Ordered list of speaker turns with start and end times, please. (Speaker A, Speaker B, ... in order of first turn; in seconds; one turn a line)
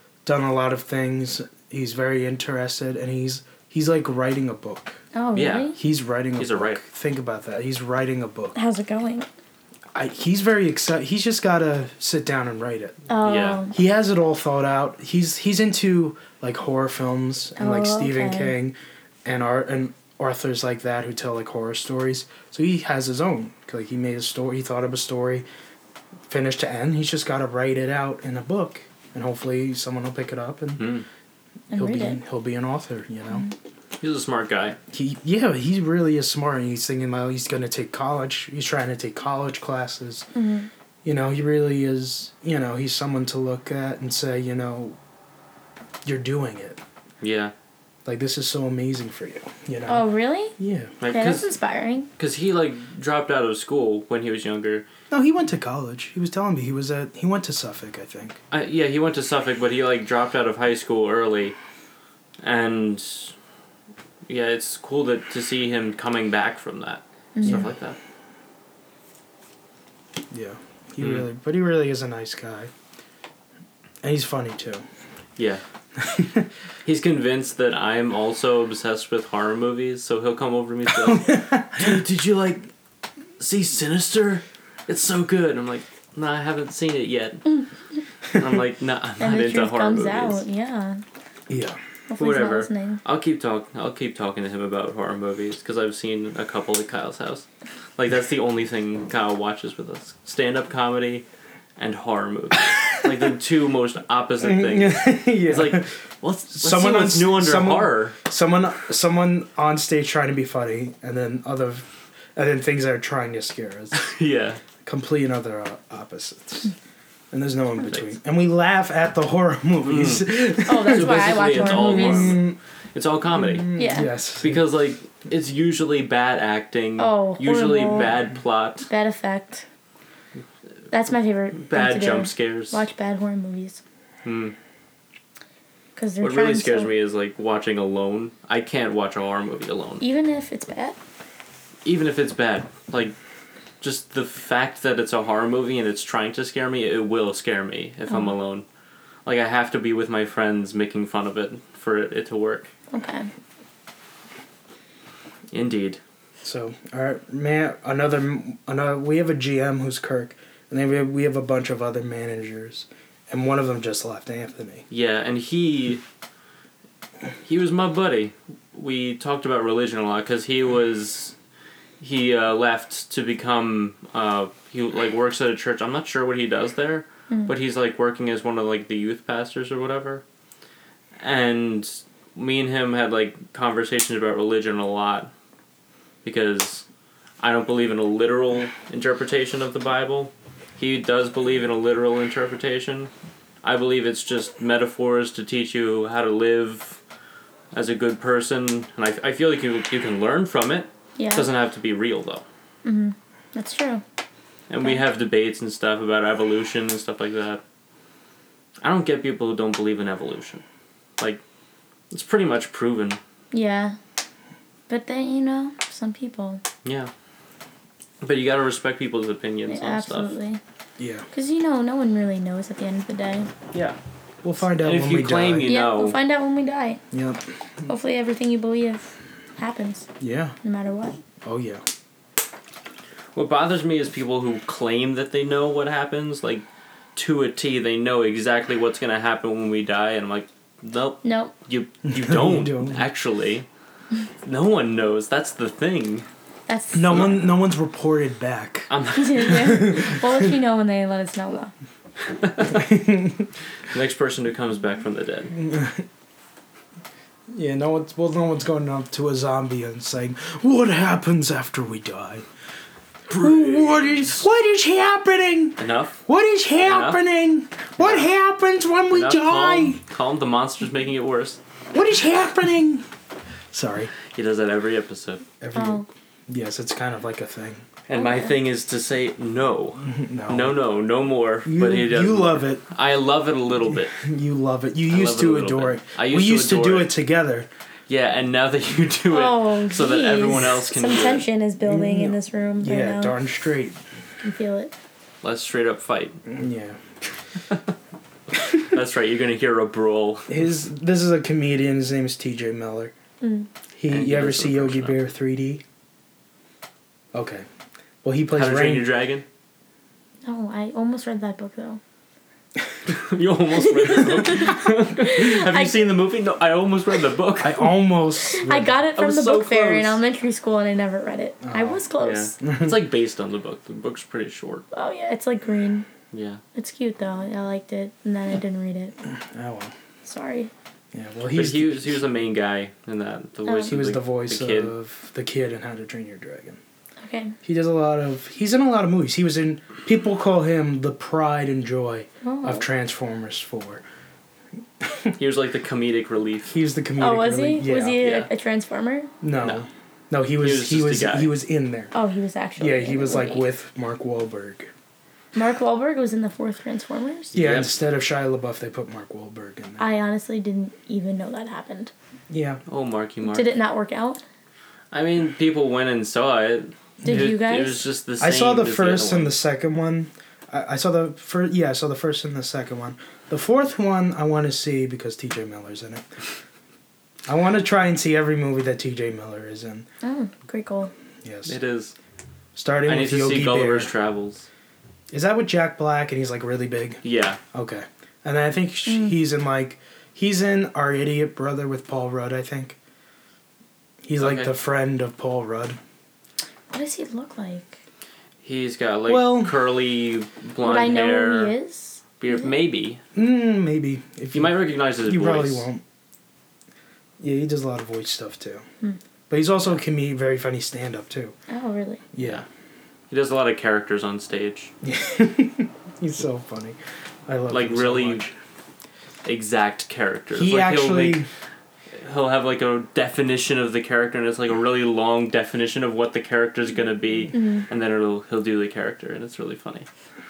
Speaker A: 0.2-5.0
Speaker B: 5.1-5.8
Speaker C: 5.3-5.8
Speaker A: 5.8-8.6
Speaker C: 6.4-6.8
Speaker B: 8.5-9.3
Speaker A: 9.9-13.0
Speaker B: 13.1-13.8
Speaker C: 13.2-13.6
Speaker A: 13.7-25.4
Speaker B: 17.6-18.5
Speaker A: 26.3-30.9
Speaker C: 30.8-31.1
Speaker B: 31.7-32.2
Speaker A: 31.7-33.5
Speaker C: 34.0-34.8
Speaker A: 34.9-40.3
Speaker B: 40.3-40.7
Speaker A: 41.0-45.0
Speaker A: 46.0-46.8
Speaker C: 47.2-47.5
Speaker A: 48.0-50.0
Speaker B: 49.9-52.1
Speaker A: 50.6-50.9
Speaker C: 51.0-51.4
Speaker C: 52.2-54.8
Speaker A: 55.1-58.4
Speaker C: 58.5-61.5
Speaker C: 62.4-63.3
Speaker C: 64.3-68.0
Speaker B: 67.3-67.6
Speaker A: 70.3-72.7
Speaker C: 71.0-71.2
Speaker A: 74.0-74.8
Speaker C: 75.4-75.6
Speaker A: 76.0-76.5
Speaker C: 76.8-82.7
Speaker A: 80.9-82.0
Speaker C: 83.4-87.6
Speaker C: 88.3-90.4
Speaker B: 89.2-91.0
Speaker A: 91.5-91.8
Speaker B: 92.1-93.0
Speaker C: 92.2-101.2
Speaker C: 101.8-108.2
Speaker A: 104.4-105.9
Speaker A: 106.5-114.1
Speaker C: 114.0-114.6
Speaker A: 114.8-116.7
Speaker A: 117.3-122.6
Speaker C: 119.8-123.7
Speaker B: 120.7-122.4
Speaker A: 123.3-124.7
Speaker B: 123.8-124.1
Speaker C: 124.4-128.9
Speaker B: 127.0-128.1
Speaker B: 128.9-129.6
Speaker B: 130.9-133.8
Speaker C: 131.6-132.8
Speaker C: 134.2-134.5
Speaker B: 135.9-136.9
Speaker C: 136.2-140.0
Speaker B: 140.0-141.0
Speaker C: 141.8-143.1
Speaker C: 143.8-148.6
Speaker C: 149.2-152.7
Speaker B: 152.9-153.3
Speaker C: 155.5-156.0
Speaker A: 156.4-164.8
Speaker C: 164.9-166.0
Speaker C: 167.4-171.3
Speaker C: 172.0-180.2
Speaker C: 181.2-185.3
Speaker C: 186.2-186.8
Speaker C: 187.4-193.1
Speaker C: 193.6-197.0
Speaker C: 197.7-202.4
Speaker B: 201.2-201.5
Speaker B: 202.8-204.0
Speaker C: 204.7-207.6
Speaker C: 208.8-210.6
Speaker C: 212.1-213.2
Speaker B: 213.5-214.0
Speaker B: 214.9-216.6
Speaker C: 216.8-217.1
Speaker C: 218.2-220.3
Speaker B: 219.7-220.6
Speaker A: 221.0-221.3
Speaker B: 221.3-223.5
Speaker A: 224.4-225.7
Speaker C: 224.8-226.2
Speaker B: 225.6-227.0
Speaker A: 227.1-227.4
Speaker B: 227.9-230.1
Speaker A: 230.2-230.6
Speaker B: 230.6-231.2
Speaker A: 231.4-231.8
Speaker C: 233.3-243.7
Speaker B: 241.2-241.5
Speaker A: 242.1-243.0
Speaker C: 244.4-246.3
Speaker B: 246.7-247.3
Speaker A: 246.9-248.9
Speaker C: 248.9-249.9
Speaker B: 249.1-251.7
Speaker A: 249.4-250.5
Speaker C: 252.3-252.8
Speaker A: 252.7-253.5
Speaker C: 253.9-255.5
Speaker A: 255.5-256.1
Speaker A: 257.5-262.4
Speaker C: 263.3-264.4
Speaker A: 263.3-270.0
Speaker C: 265.8-266.2
Speaker C: 266.8-267.2
Speaker C: 268.0-268.3
Speaker C: 269.1-271.6
Speaker A: 271.9-273.1
Speaker A: 273.7-274.1
Speaker C: 274.2-275.4
Speaker A: 275.6-277.9
Speaker B: 275.7-276.1
Speaker C: 278.1-284.2
Speaker B: 278.1-278.6
Speaker A: 280.0-280.8
Speaker A: 281.6-282.8
Speaker A: 284.1-287.7
Speaker C: 285.1-287.1
Speaker C: 288.1-291.5
Speaker B: 289.3-293.4
Speaker A: 291.8-294.0
Speaker B: 294.4-294.9
Speaker C: 295.4-296.4
Speaker A: 296.5-297.0
Speaker C: 298.6-300.6
Speaker A: 300.5-303.1
Speaker B: 303.4-303.7
Speaker A: 304.0-305.8
Speaker C: 304.1-305.2
Speaker A: 307.3-307.6
Speaker A: 308.2-309.1
Speaker C: 308.5-309.4
Speaker B: 310.4-312.0
Speaker C: 313.1-317.9
Speaker B: 313.7-316.1
Speaker A: 317.6-319.0
Speaker B: 318.4-322.6
Speaker C: 319.1-320.2
Speaker A: 321.6-322.0
Speaker C: 322.2-324.8
Speaker A: 322.6-323.0
Speaker B: 324.9-326.1
Speaker C: 326.3-326.6
Speaker B: 326.7-329.1
Speaker A: 329.4-329.9
Speaker B: 330.2-330.7
Speaker A: 331.1-332.2
Speaker C: 331.5-334.9
Speaker B: 333.6-333.9
Speaker A: 333.9-336.8
Speaker B: 337.2-337.5
Speaker A: 337.6-344.0
Speaker B: 342.4-342.9
Speaker A: 345.0-345.4
Speaker C: 345.4-346.8
Speaker A: 346.7-348.2
Speaker B: 347.2-349.3
Speaker C: 348.2-348.5
Speaker A: 349.4-352.1
Speaker C: 350.6-351.5
Speaker B: 352.1-353.6
Speaker A: 352.8-354.9
Speaker B: 355.5-357.5
Speaker C: 357.5-357.9
Speaker A: 357.5-360.1
Speaker B: 360.0-362.1
Speaker A: 362.5-362.8
Speaker C: 362.9-363.7
Speaker B: 363.4-364.4
Speaker C: 365.1-369.6
Speaker A: 367.2-367.5
Speaker B: 367.2-368.0
Speaker A: 368.4-376.3
Speaker A: 377.5-380.1
Speaker B: 380.2-381.1
Speaker A: 381.4-381.7
Speaker C: 381.6-382.1
Speaker A: 382.8-384.1
Speaker C: 383.1-384.6
Speaker A: 385.3-387.2
Speaker C: 387.2-387.6
Speaker A: 387.7-393.0
Speaker B: 389.1-389.4
Speaker A: 394.2-396.0
Speaker C: 394.4-394.7
Speaker B: 396.9-398.0
Speaker C: 398.6-401.7
Speaker A: 399.3-399.8
Speaker B: 400.8-402.7
Speaker C: 402.4-403.2
Speaker A: 403.3-406.0
Speaker C: 404.5-405.9
Speaker A: 407.4-408.8
Speaker A: 409.5-411.5
Speaker B: 411.7-412.2
Speaker A: 412.3-412.6
Speaker C: 412.4-412.6
Speaker C: 413.3-414.9
Speaker A: 415.0-418.5
Speaker C: 417.7-418.4
Speaker C: 419.4-421.4
Speaker A: 420.5-421.5
Speaker C: 422.1-430.1
Speaker B: 427.5-427.8